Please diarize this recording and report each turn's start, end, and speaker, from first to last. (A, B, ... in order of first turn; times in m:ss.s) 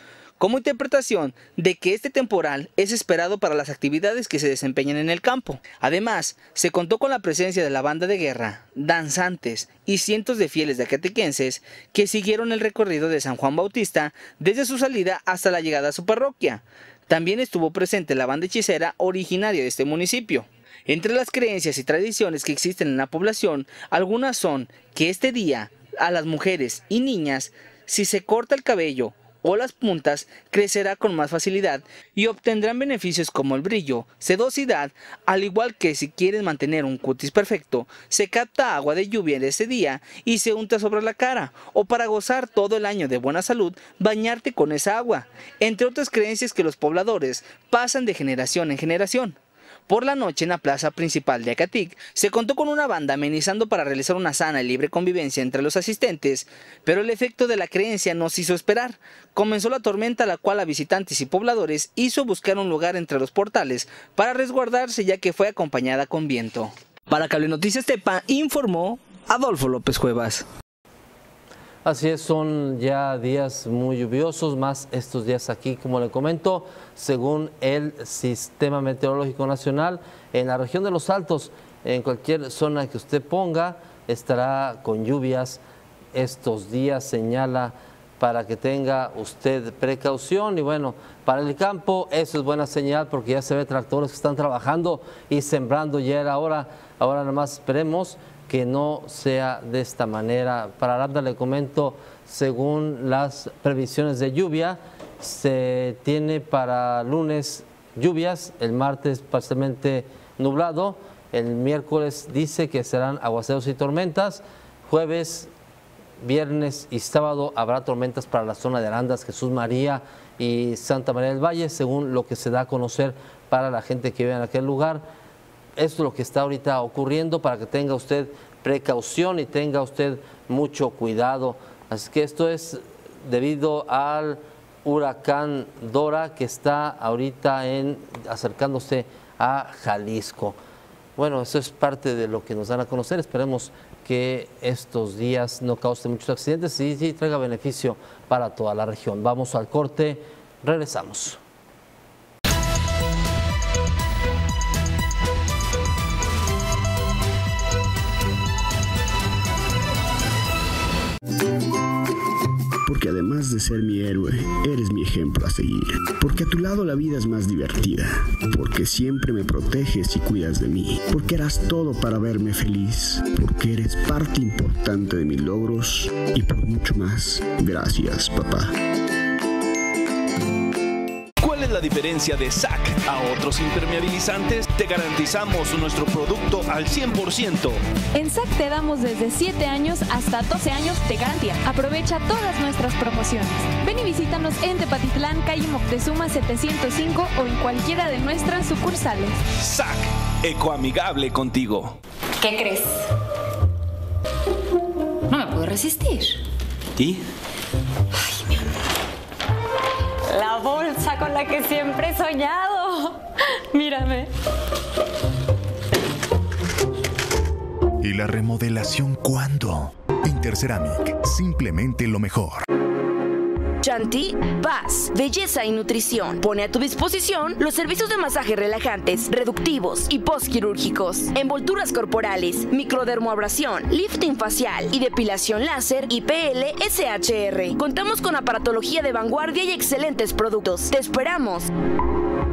0:00.4-0:49.4 A
0:49.9-1:10.4 A
1:11.8-1:25.6 B
1:26.1-1:55.5 B
1:56.2-2:05.0 B
2:05.8-2:20.6 B
2:21.2-2:31.4 B
2:42.8-2:58.7 C
3:01.4-3:07.8 D
3:08.1-3:19.4 E
3:19.6-3:21.9 D
3:22.4-3:23.1 F
3:25.3-3:26.4 F
3:27.0-3:27.2 D
3:30.3-3:33.2 F
3:33.7-3:34.3 F
3:38.0-3:42.6 G
3:43.8-4:01.7 H